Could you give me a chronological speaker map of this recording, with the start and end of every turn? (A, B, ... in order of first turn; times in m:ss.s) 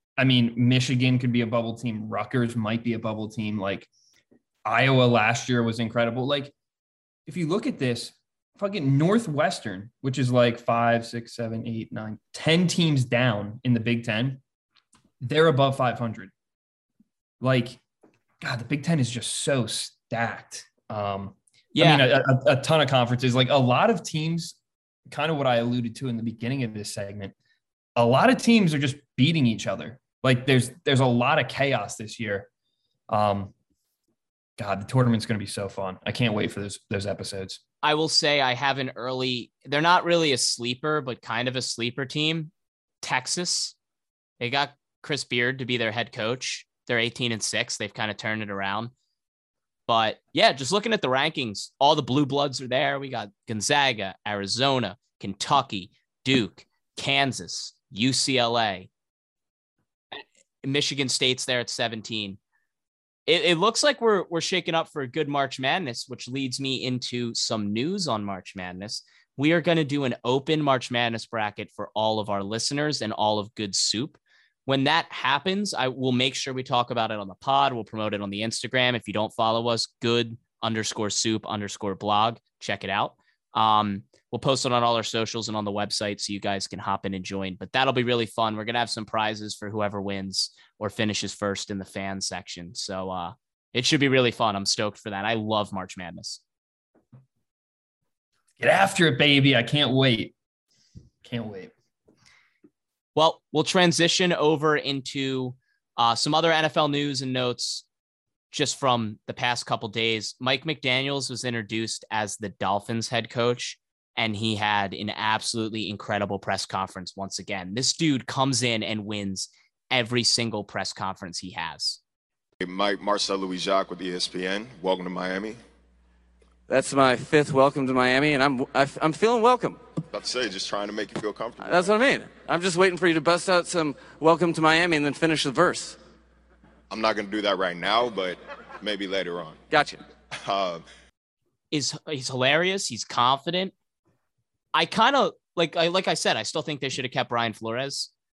0:00.2-0:03.9 A
0:04.6-0:06.5 A
0:07.3-0:14.4 A
0:15.2-0:16.3 A
0:17.4-0:17.8 A
0:18.4-0:24.6 A
0:21.8-0:22.0 B
0:25.1-0:27.3 A
0:28.0-0:32.5 A
0:33.1-0:33.5 A
0:34.6-0:37.6 A
0:37.8-0:42.5 B
0:43.0-0:43.8 B
0:44.4-0:48.9 B
0:49.9-0:58.9 B
1:00.1-1:02.4 B
1:03.3-1:36.4 B
1:38.6-1:40.3 A
1:41.2-1:41.7 A
1:43.2-1:47.8 B
1:48.5-2:02.0 B
2:02.6-2:05.6 C
2:06.7-2:09.8 D
2:10.1-2:11.9 C
2:11.6-2:16.0 D
2:16.9-2:19.6 C
2:19.7-2:20.0 D
2:20.4-2:20.8 C
2:21.7-2:23.7 B
2:24.7-2:28.1 B